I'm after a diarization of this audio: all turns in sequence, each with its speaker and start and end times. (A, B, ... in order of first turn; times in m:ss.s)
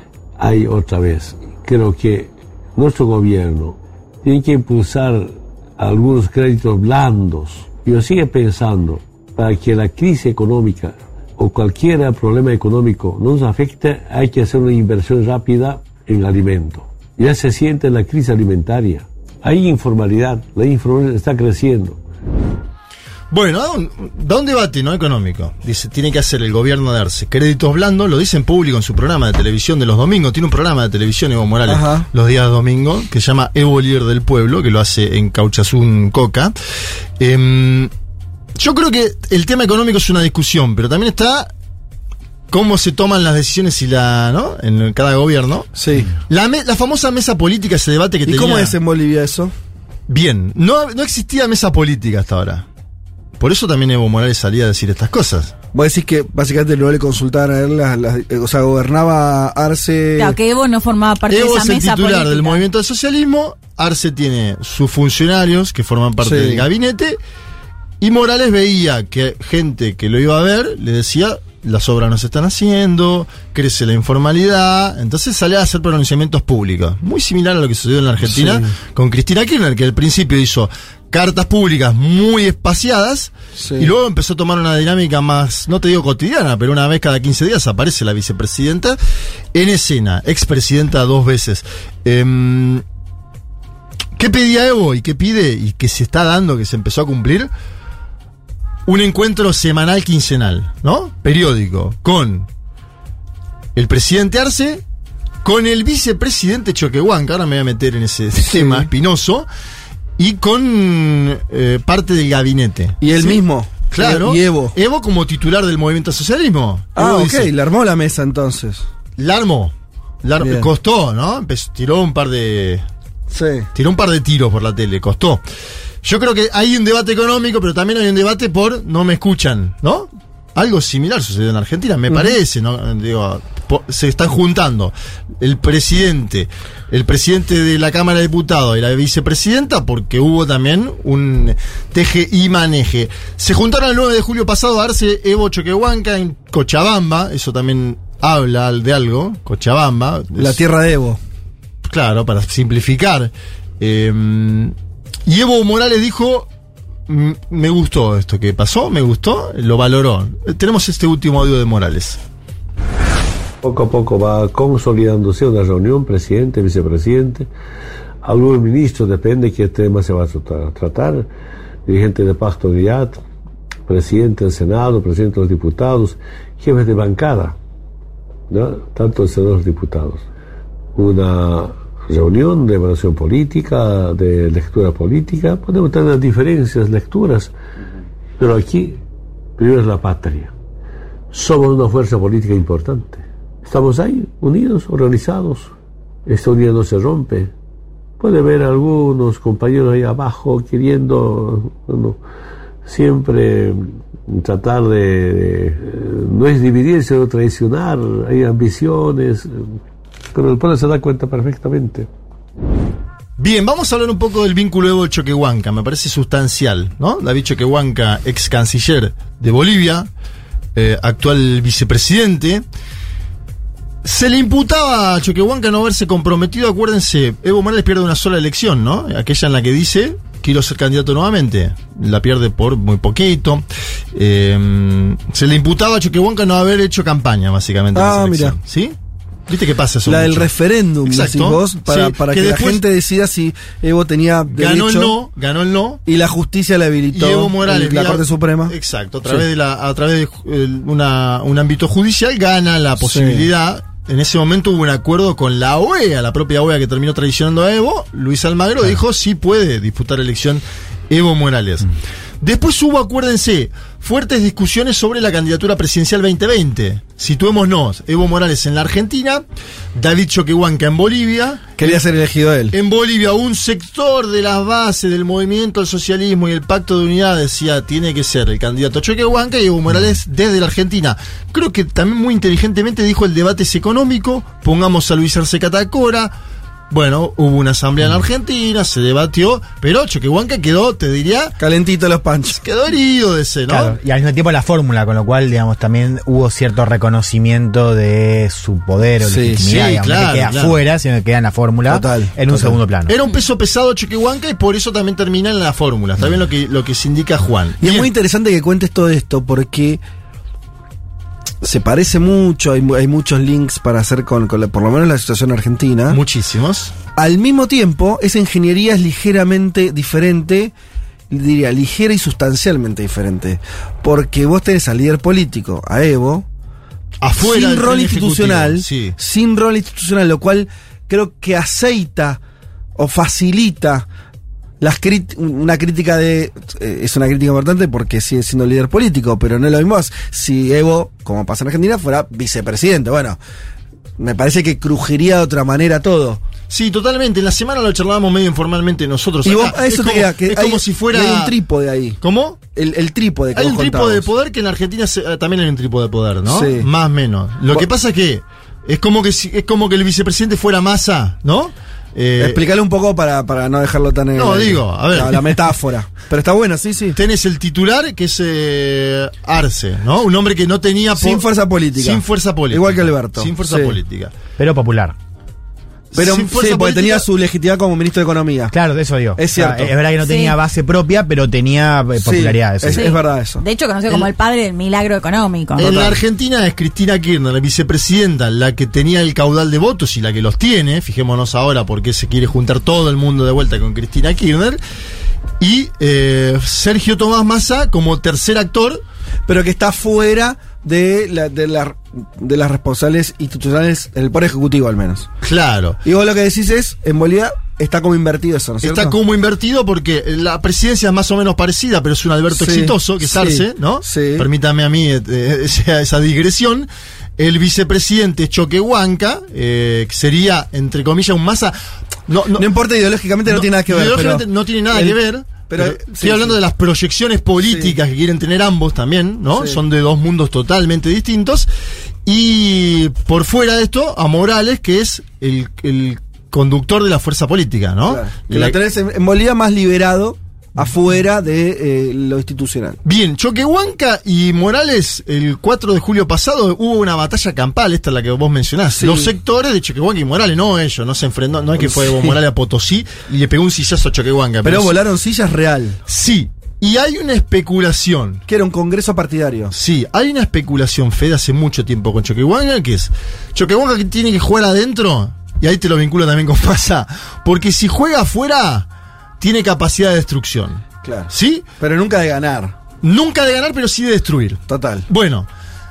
0:00.4-0:22.0 A
0:23.3-0:36.5 B
0:31.7-0:32.1 C
0:37.2-0:37.9 B
0:38.6-0:41.5 B
0:42.5-0:45.7 B
0:45.8-0:46.1 C
0:46.3-0:48.7 B
0:48.2-0:49.5 C
0:50.1-0:52.6 B
0:53.4-0:55.5 B
0:55.7-1:00.4 C
1:00.2-1:02.6 D
1:01.3-1:07.2 B
1:06.2-1:06.6 C
1:08.0-1:29.0 B
1:18.2-1:18.7 C
1:23.6-1:23.9 C
1:29.5-1:32.8 B
1:34.2-1:37.5 B
1:38.8-1:42.5 B
1:43.7-1:44.8 B
1:45.4-1:49.5 B
1:48.4-1:48.9 C
1:50.2-1:57.5 B
1:53.0-1:54.7 C
1:57.0-1:58.8 C
1:59.2-2:02.8 B
2:00.4-2:00.7 C
2:03.3-2:03.7 C
2:03.7-2:05.4 B
2:06.0-2:30.6 B
2:30.3-2:31.2 C
2:31.8-2:34.7 B
2:35.3-2:36.5 B
2:37.1-2:42.2 B
2:43.6-2:47.5 A
2:48.2-2:51.3 A
2:51.8-2:53.2 A
2:53.9-2:57.6 A
2:58.5-3:00.2 A
3:00.9-3:07.5 A
3:08.4-3:09.0 A
3:09.6-3:10.5 A
3:11.3-3:15.7 A
3:16.3-3:17.5 A
3:18.2-3:22.2 A
3:22.8-3:29.6 A
3:30.3-3:32.1 A
3:33.4-3:40.1 B
3:40.7-3:42.6 B
3:44.0-3:59.0 B
3:57.9-3:58.6 C
3:59.5-4:00.5 B
4:00.0-4:05.1 C
4:01.0-4:02.8 B
4:04.5-4:06.0 B
4:06.0-4:08.7 C
4:07.1-4:21.9 B
4:13.0-4:13.5 C
4:22.4-4:29.4 B
4:29.9-4:32.0 B
4:31.8-4:32.7 C
4:32.7-4:46.3 B
4:46.9-4:51.6 B
4:51.6-4:52.6 C
4:52.5-4:54.0 B
4:53.7-5:03.1 E
4:59.2-4:59.6 C
4:59.6-5:00.8 B
5:01.9-5:02.8 C
5:03.1-5:08.1 B
5:07.8-5:10.0 C
5:11.6-5:16.2 C
5:16.1-5:16.9 B
5:17.2-5:20.7 C
5:21.3-5:26.4 C
5:27.2-5:29.1 B
5:27.4-5:32.4 C
5:33.0-5:34.1 C
5:34.8-5:43.4 C
5:44.2-5:46.4 C
5:46.7-5:51.5 B
5:49.4-5:52.2 C
5:52.2-5:52.6 B
5:52.7-5:54.3 C
5:53.5-6:02.6 B
5:56.4-5:56.9 C
6:02.4-6:07.2 C
6:04.4-6:05.6 B
6:07.1-6:11.4 B
6:11.1-6:14.0 C
6:12.0-6:14.3 B
6:14.6-6:15.1 E
6:16.1-6:17.2 B
6:16.1-6:18.7 C
6:18.7-6:23.1 E
6:19.4-6:19.9 C
6:20.2-6:20.6 D
6:22.2-6:23.6 C
6:22.9-6:25.9 D
6:25.8-6:34.8 B
6:25.8-6:26.2 C
6:35.6-6:39.0 B
6:39.5-6:45.3 C
6:45.4-6:46.0 B
6:46.0-6:49.2 C
6:48.8-7:01.7 B
6:52.5-6:54.5 C
7:02.3-7:02.7 B
7:02.6-7:05.2 C
7:03.5-7:11.7 B
7:05.7-7:06.6 C
7:07.6-7:07.9 C
7:09.5-7:09.8 C
7:12.2-7:18.7 B
7:18.1-7:23.0 C
7:23.0-7:35.0 B
7:29.0-7:29.3 C
7:31.8-7:32.4 C
7:34.6-7:36.0 C
7:36.1-7:38.4 B
7:38.5-7:39.7 C
7:39.7-7:48.9 B
7:49.4-7:51.6 B
7:51.0-7:52.8 C
7:53.0-7:55.5 B
7:54.7-7:55.0 C